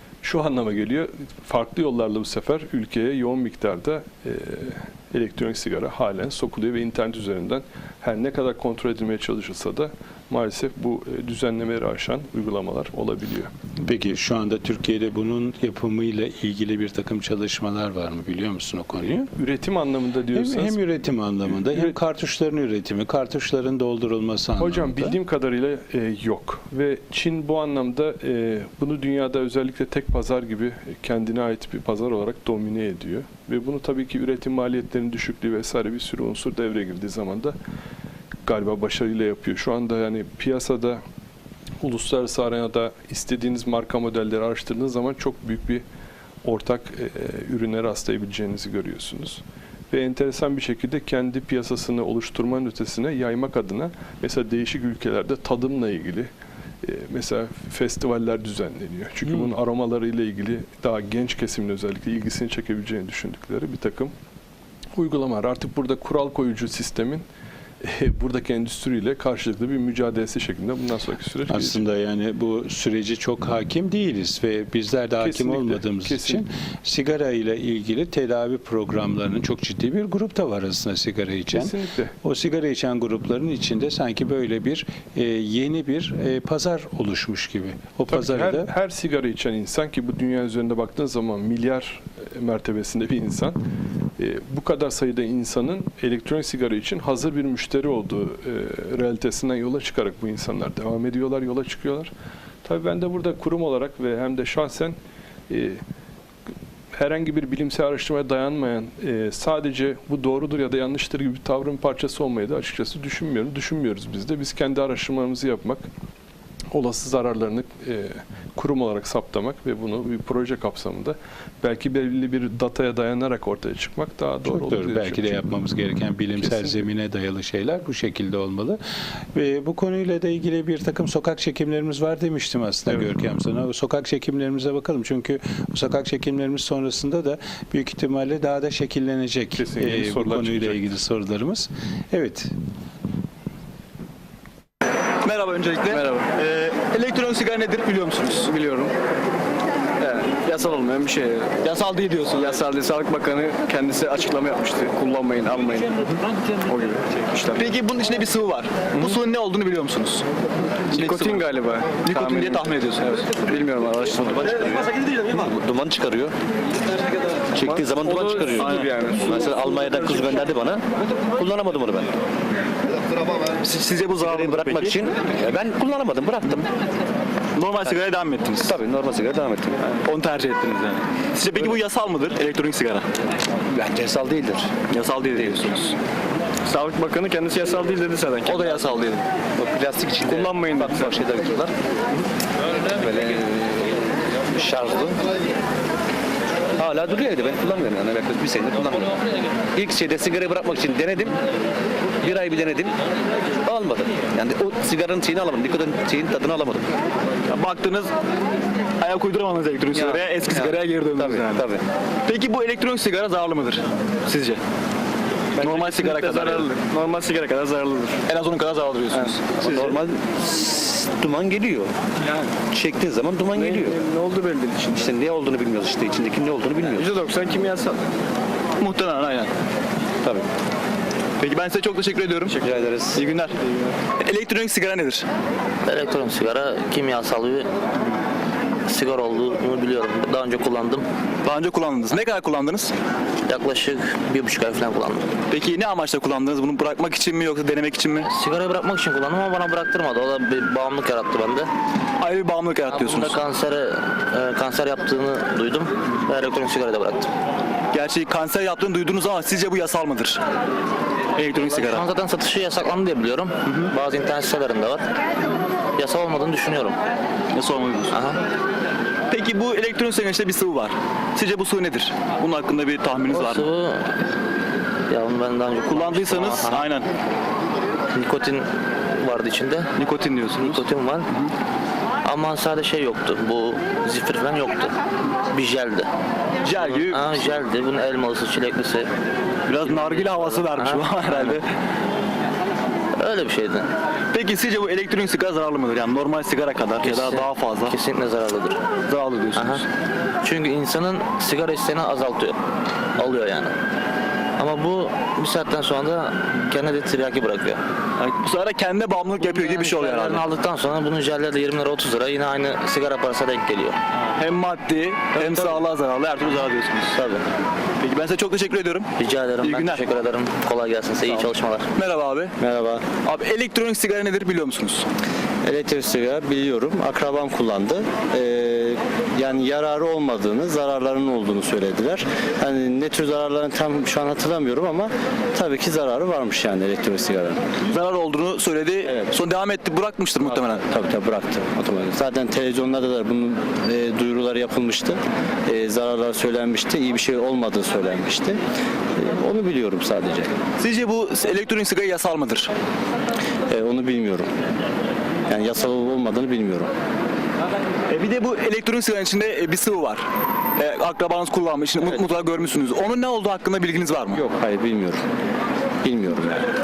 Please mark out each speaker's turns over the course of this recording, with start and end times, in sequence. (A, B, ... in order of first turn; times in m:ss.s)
0:00.2-0:13.5 A
0:13.8-0:19.3 B
0:19.2-0:22.0 A
0:20.3-0:25.2 B
0:24.6-0:37.6 A
0:38.4-0:41.0 A
0:41.8-0:45.8 A
0:46.4-0:56.3 A
0:56.8-1:04.1 A
1:05.0-1:07.2 A
1:07.8-1:11.8 A
1:11.5-1:28.7 B
1:15.2-1:16.4 A
1:21.5-1:22.1 A
1:28.1-1:33.6 A
1:34.2-1:42.1 A
1:42.6-1:45.0 A
1:45.5-1:45.8 A
1:46.9-1:55.9 A
1:56.7-2:05.4 A
2:04.4-2:08.8 B
2:06.4-2:06.8 A
2:09.3-2:22.5 B
2:19.6-2:20.9 A
2:25.2-2:28.5 C
2:25.8-2:26.3 D
2:28.4-2:28.9 D
2:30.0-2:31.6 D
2:31.6-2:32.4 C
2:32.2-2:36.0 D
2:36.6-2:37.7 D
2:37.5-2:40.2 C
2:40.9-2:44.9 D
2:40.9-2:43.2 C
2:44.5-2:46.3 E
2:47.5-2:52.1 E
2:47.6-2:50.3 D
2:48.5-2:48.9 C
2:53.6-2:55.0 C
2:54.2-2:56.7 E
2:57.6-2:58.8 C
2:58.6-2:59.8 E
3:00.0-3:03.0 C
3:03.7-3:04.7 E
3:04.9-3:05.9 C
3:06.6-3:09.2 D
3:08.6-3:09.0 E
3:09.6-3:11.7 E
3:10.2-3:11.2 D
3:13.0-3:14.0 E
3:14.5-3:15.2 E
3:16.8-3:19.1 E
3:19.7-3:21.3 E
3:22.2-3:22.9 E
3:23.6-3:26.8 E
3:27.5-3:28.1 C
3:29.0-3:31.6 C
3:29.9-3:31.8 E
3:32.2-3:34.6 C
3:35.6-3:38.2 D
3:35.6-3:36.7 C
3:38.3-3:39.8 C
3:39.1-3:40.0 D
3:39.6-3:41.9 E
3:42.2-3:42.5 D
3:42.6-3:44.0 E
3:43.5-3:45.1 D
3:44.9-3:47.2 E
3:46.9-3:48.0 D
3:48.8-3:49.5 C
3:51.4-3:52.6 C
3:52.6-3:53.2 E
3:53.1-3:53.6 C
3:54.2-3:55.2 C
3:55.8-3:57.7 F
3:58.9-4:01.0 F
4:01.4-4:02.9 C
4:03.5-4:05.3 F
4:05.5-4:08.3 C
4:08.3-4:11.7 F
4:12.2-4:13.4 C
4:12.9-4:17.3 F
4:17.9-4:20.4 C
4:21.4-4:22.0 C
4:21.6-4:25.0 F
4:23.6-4:23.9 C
4:26.0-4:27.0 F
4:27.5-4:28.2 C
4:28.1-4:28.4 F
4:29.3-4:33.7 C
4:33.3-4:34.1 F
4:35.1-4:36.9 F
4:35.8-4:37.1 C
4:38.1-4:39.9 F
4:40.0-4:41.5 C
4:40.6-4:41.3 F
4:42.2-4:45.0 F
4:45.5-4:46.1 F
4:46.6-4:47.6 C
4:46.8-4:49.1 F
4:49.7-4:51.7 C
4:49.8-4:51.6 F
4:53.2-4:53.9 F
4:54.3-4:57.9 C
4:57.0-4:58.8 F
4:59.1-4:59.8 C
4:59.5-4:59.8 F
5:00.4-5:02.6 F
5:03.2-5:03.7 F
5:04.6-5:07.8 F
5:08.2-5:10.4 C
5:09.4-5:14.0 F
5:14.3-5:17.2 C
5:15.3-5:15.8 F
5:17.1-5:17.4 F
5:18.0-5:19.1 C
5:19.2-5:21.9 F
5:19.6-5:20.0 C
5:21.2-5:22.5 C
5:22.6-5:23.0 G
5:23.2-5:25.1 C
5:25.6-5:37.6 G
5:37.9-5:40.8 C
5:40.8-5:48.6 G
5:49.2-5:50.6 G
5:50.8-5:52.7 C
5:53.7-5:54.5 G
5:55.5-5:56.9 G
5:58.1-6:00.2 C
6:00.8-6:04.4 C
6:04.3-6:05.2 G
6:06.0-6:06.6 G